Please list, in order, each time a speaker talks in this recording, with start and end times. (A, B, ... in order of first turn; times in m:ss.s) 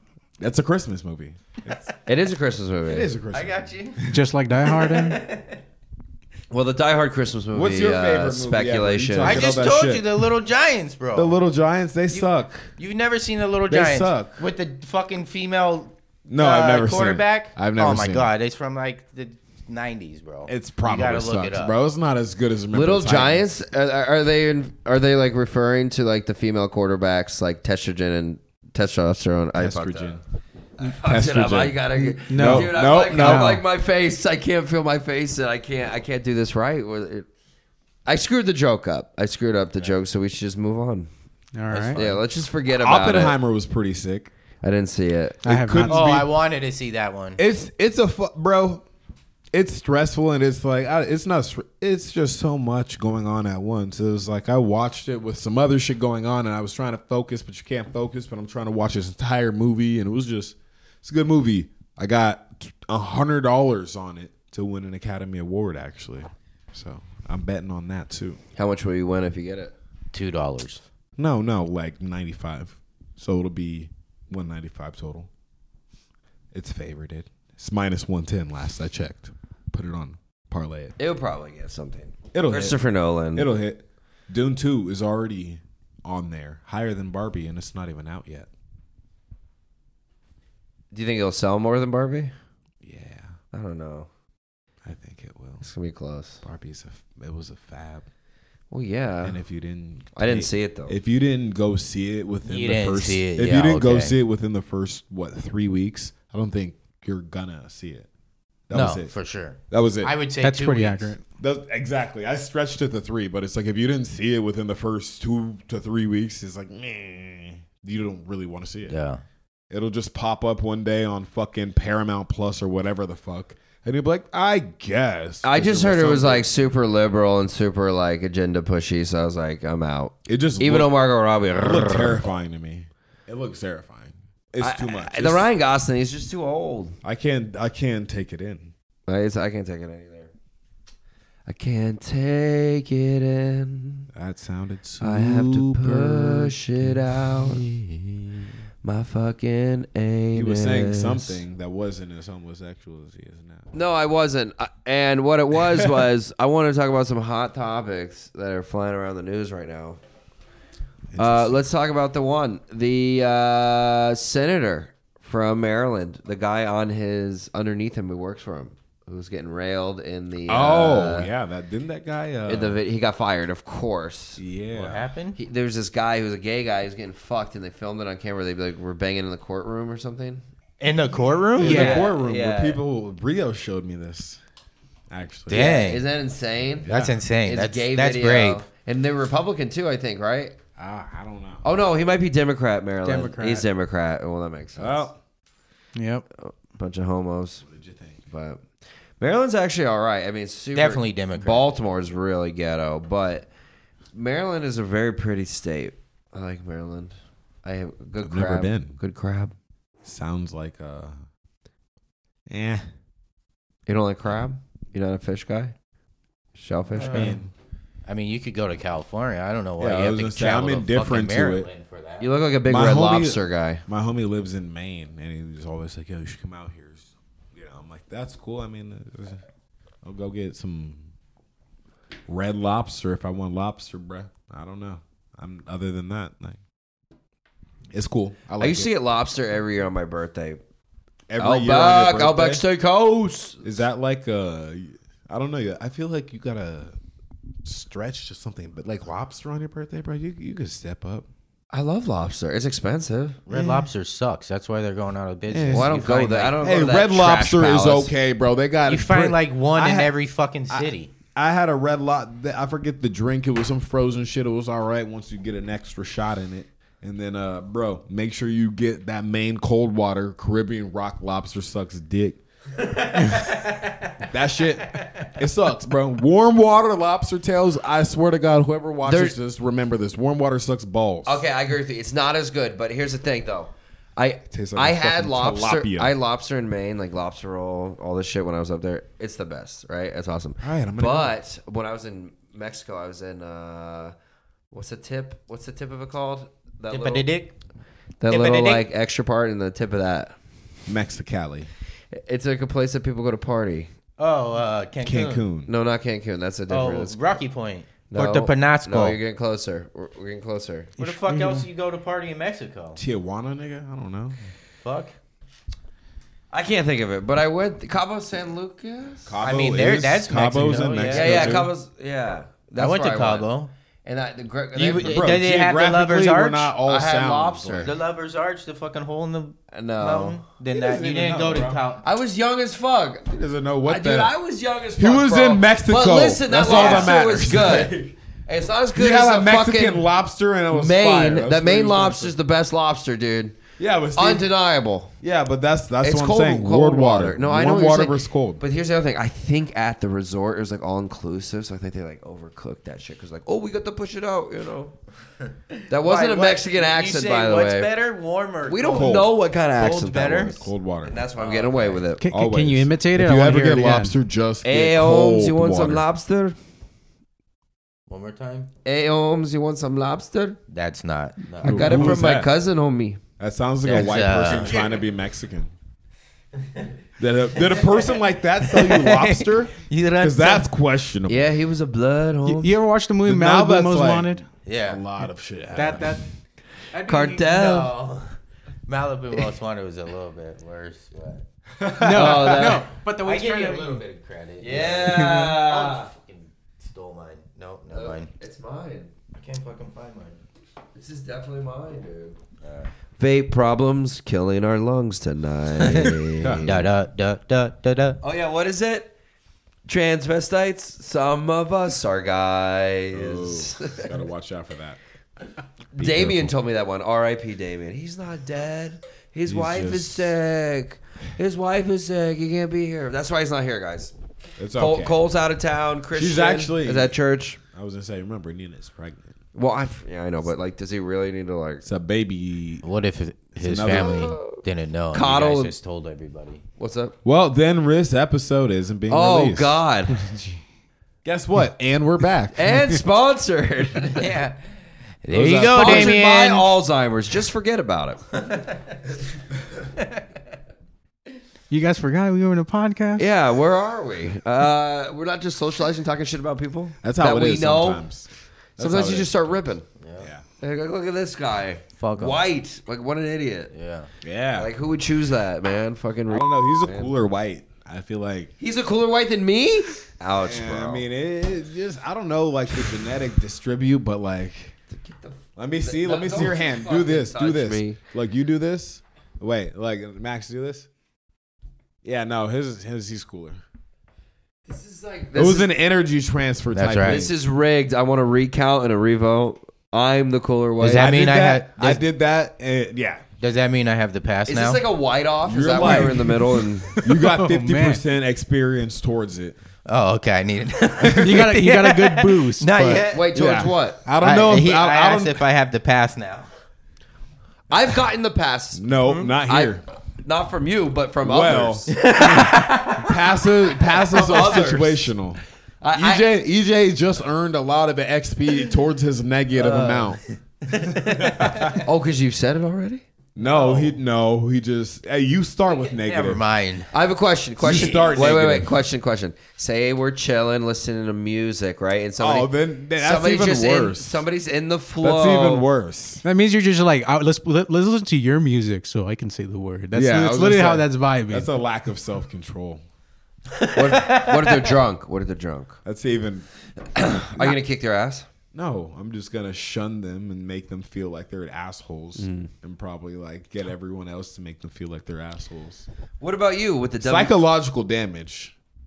0:00.4-0:01.9 A
0:02.1-0:03.1 B
0:02.9-0:04.2 A
0:03.3-0:04.0 C
0:04.1-0:05.2 D
0:04.6-0:05.6 C
0:06.5-0:09.5 B
0:07.5-0:10.1 A
0:09.2-0:11.4 C
0:11.1-0:12.7 A
0:12.1-0:21.7 C
0:13.7-0:14.4 A
0:16.3-0:18.3 A
0:20.5-0:23.5 A
0:22.7-0:30.2 B
0:29.6-0:30.2 A
0:30.8-0:37.3 B
0:31.0-0:33.6 A
0:32.3-0:33.6 D
0:38.1-0:41.1 B
0:41.5-0:42.0 D
0:41.7-0:42.1 C
0:42.0-0:43.4 B
0:42.8-0:44.3 A
0:44.6-0:45.4 B
0:45.4-0:46.3 A
0:45.4-0:46.1 D
0:45.8-0:47.4 C
0:47.4-0:48.8 A
0:49.5-1:08.4 A
1:08.6-1:09.7 B
1:10.1-1:10.8 C
1:11.2-1:15.3 A
1:16.5-1:21.0 A
1:21.0-1:23.5 B
1:22.3-1:22.8 A
1:23.3-1:28.5 A
1:30.9-1:32.3 B
1:32.8-1:33.4 A
1:33.5-1:34.1 B
1:34.8-1:35.7 A
1:35.6-1:36.4 B
1:36.4-1:38.1 A
1:38.7-1:39.4 B
1:39.2-1:48.1 A
1:40.2-1:41.0 B
1:42.4-1:44.2 C
1:48.7-1:49.1 A
1:48.7-1:51.1 C
1:49.7-1:50.2 A
1:50.4-1:51.2 D
1:51.4-1:59.0 A
1:58.9-1:59.2 C
1:59.7-2:06.5 A
2:05.4-2:12.2 B
2:10.3-2:11.0 A
2:11.5-2:15.5 A
2:14.6-2:17.0 B
2:17.0-2:18.7 A
2:19.1-2:20.3 B
2:21.5-2:24.1 B
2:24.1-2:28.2 A
2:25.0-2:27.7 B
2:28.8-2:31.4 B
2:30.3-2:33.7 A
2:33.7-2:40.0 B
2:35.7-2:36.0 A
2:41.1-2:41.6 A
2:41.2-2:51.3 B
2:50.5-2:52.8 A
2:52.5-2:54.4 B
2:54.4-2:55.1 A
2:54.7-2:55.4 C
2:55.4-3:00.4 B
3:00.8-3:02.1 C
3:01.6-3:04.4 A
3:01.6-3:02.8 B
3:05.1-3:05.7 A
3:05.5-3:06.0 C
3:05.5-3:06.9 B
3:06.8-3:07.2 A
3:06.9-3:08.6 C
3:07.4-3:10.6 B
3:10.8-3:11.6 A
3:11.6-3:15.1 B
3:13.0-3:13.6 D
3:14.8-3:15.2 A
3:16.0-3:16.3 D
3:16.4-3:17.6 B
3:17.7-3:18.2 A
3:18.3-3:18.6 B
3:19.2-3:23.5 B
3:20.8-3:21.7 C
3:24.1-3:29.5 B
3:28.2-3:29.0 A
3:30.0-3:31.2 A
3:32.5-3:32.8 A
3:33.9-3:35.7 B
3:36.6-3:37.4 B
3:36.9-3:37.5 A
3:37.0-3:37.4 C
3:38.1-3:42.3 C
3:39.8-3:41.7 A
3:42.2-3:43.8 B
3:42.7-3:49.4 A
3:50.0-3:51.1 A
3:52.3-3:56.6 A
3:57.9-3:58.9 A
3:58.6-4:00.6 B
4:01.3-4:02.6 A
4:01.4-4:03.6 B
4:03.6-4:07.0 A
4:07.6-4:11.3 A
4:11.7-4:13.4 B
4:13.5-4:16.6 C
4:13.5-4:13.8 D
4:15.5-4:16.0 A
4:15.7-4:18.1 B
4:16.6-4:20.1 A
4:18.9-4:21.1 C
4:20.7-4:32.4 A
4:32.8-4:34.2 C
4:34.2-4:41.4 A
4:39.0-4:39.4 B
4:41.2-4:54.1 B
4:44.5-4:46.1 A
4:50.6-4:51.3 A
4:54.7-4:57.3 B
4:56.9-4:57.5 C
4:58.2-5:00.4 B
4:58.3-4:58.9 C
5:00.9-5:01.7 A
5:02.1-5:03.9 B
5:04.2-5:05.5 C
5:05.0-5:05.7 A
5:05.7-5:07.2 B
5:06.7-5:09.2 C
5:08.1-5:10.9 B
5:11.0-5:11.7 D
5:11.0-5:13.0 C
5:13.0-5:14.5 A
5:14.8-5:15.1 C
5:16.5-5:19.4 B
5:19.3-5:21.7 A
5:19.4-5:21.6 C
5:21.1-5:23.5 B
5:22.8-5:23.7 C
5:24.1-5:25.3 B
5:24.8-5:26.7 C
5:25.0-5:27.9 A
5:26.8-5:27.9 B
5:27.8-5:32.0 C
5:29.7-5:30.4 B
5:30.7-5:31.8 A
5:32.0-5:33.3 B
5:33.3-5:34.3 A
5:33.9-5:40.1 B
5:35.0-5:38.1 A
5:36.6-5:37.2 C
5:38.9-5:42.3 A
5:40.7-5:43.6 B
5:43.8-5:44.5 A
5:44.2-5:45.2 B
5:45.2-5:48.6 A
5:46.0-5:55.0 B
5:55.8-6:00.6 C
5:55.9-5:57.9 B
5:58.7-6:02.2 B
5:58.9-5:59.3 A
6:00.3-6:01.2 A
6:01.4-6:02.0 C
6:02.2-6:04.1 D
6:02.3-6:06.0 A
6:04.6-6:06.6 B
6:08.1-6:08.7 C
6:08.8-6:10.6 B
6:10.7-6:12.2 C
6:11.6-6:12.5 A
6:11.6-6:13.2 B
6:13.4-6:15.7 A
6:13.8-6:14.9 C
6:17.2-6:21.5 A
6:17.6-6:20.7 C
6:21.3-6:22.8 B
6:22.4-6:24.4 D
6:23.2-6:26.2 A
6:24.6-6:25.0 C
6:25.8-6:26.3 D
6:26.9-6:27.4 D
6:27.0-6:27.9 B
6:27.3-6:28.3 C
6:28.9-6:31.4 C
6:31.8-6:32.7 A
6:32.0-6:34.0 D
6:32.1-6:32.9 B
6:33.2-6:38.3 C
6:34.6-6:36.1 B
6:35.1-6:35.6 D
6:37.9-6:39.1 B
6:39.3-6:40.4 C
6:41.0-6:42.4 B
6:42.6-6:42.9 C
6:43.2-6:46.7 B
6:45.8-6:48.2 C
6:46.4-6:46.9 A
6:48.2-6:49.1 B
6:49.9-6:54.1 B
6:53.1-6:55.0 A
6:56.0-7:04.1 B
6:56.0-6:56.5 A
6:59.5-7:00.3 A
7:04.6-7:05.2 A
7:04.8-7:07.6 B
7:06.1-7:07.2 A
7:07.7-7:09.4 A
7:09.5-7:11.8 B
7:11.8-7:12.8 A
7:12.8-7:16.6 C
7:13.6-7:14.3 A
7:13.8-7:14.6 B
7:15.1-7:15.7 B
7:16.8-7:17.2 B
7:17.2-7:20.3 A
7:19.1-7:20.2 B
7:21.2-7:22.8 A
7:22.6-7:24.3 B
7:24.2-7:24.6 C
7:25.2-7:26.7 C
7:25.3-7:26.2 A
7:25.6-7:28.2 B
7:31.7-7:33.3 D
7:33.2-7:38.0 B
7:37.0-7:39.7 A
7:38.8-7:39.8 B
7:40.0-7:40.3 C
7:40.2-7:40.4 A
7:40.6-7:43.7 B
7:42.0-7:42.4 C
7:43.7-7:44.1 C
7:44.2-7:44.7 A
7:44.6-7:47.1 B
7:46.3-7:48.5 A
7:48.6-7:51.0 B
7:50.4-7:54.7 A
7:54.9-7:58.0 B
7:55.6-8:00.9 A
8:02.0-8:03.6 A
8:04.7-8:05.7 B
8:05.4-8:07.3 A
8:06.7-8:07.3 C
8:07.1-8:11.1 B
8:10.8-8:12.0 C
8:10.9-8:13.2 A
8:13.4-8:14.8 C
8:14.5-8:17.0 B
8:15.5-8:19.6 A
8:15.8-8:16.2 D
8:17.0-8:18.0 D
8:19.9-8:23.3 C
8:21.0-8:21.4 A
8:21.1-8:23.0 D
8:23.1-8:24.0 B
8:23.4-8:25.5 A
8:24.2-8:26.5 C
8:27.7-8:28.9 B
8:28.7-8:29.8 A
8:29.4-8:32.0 B
8:31.2-8:35.4 A
8:31.9-8:33.2 C
8:34.0-8:35.1 B
8:35.8-8:36.3 B
8:35.9-8:40.2 A
8:39.6-8:40.2 C
8:40.7-8:41.8 C
8:40.9-8:41.8 A
8:41.8-8:43.0 B
8:43.4-8:46.4 A
8:43.4-8:44.0 C
8:45.7-8:46.9 C
8:46.9-8:55.7 B
8:47.6-8:48.7 A
8:52.2-8:54.2 A
8:55.0-8:56.2 A
8:56.2-9:01.5 D
8:59.9-9:02.8 A
9:03.6-9:04.6 C
9:03.7-9:05.8 B
9:05.8-9:06.5 A
9:06.9-9:08.3 B
9:08.5-9:15.9 A
9:12.2-9:12.5 B
9:16.2-9:17.3 B
9:17.0-9:18.5 A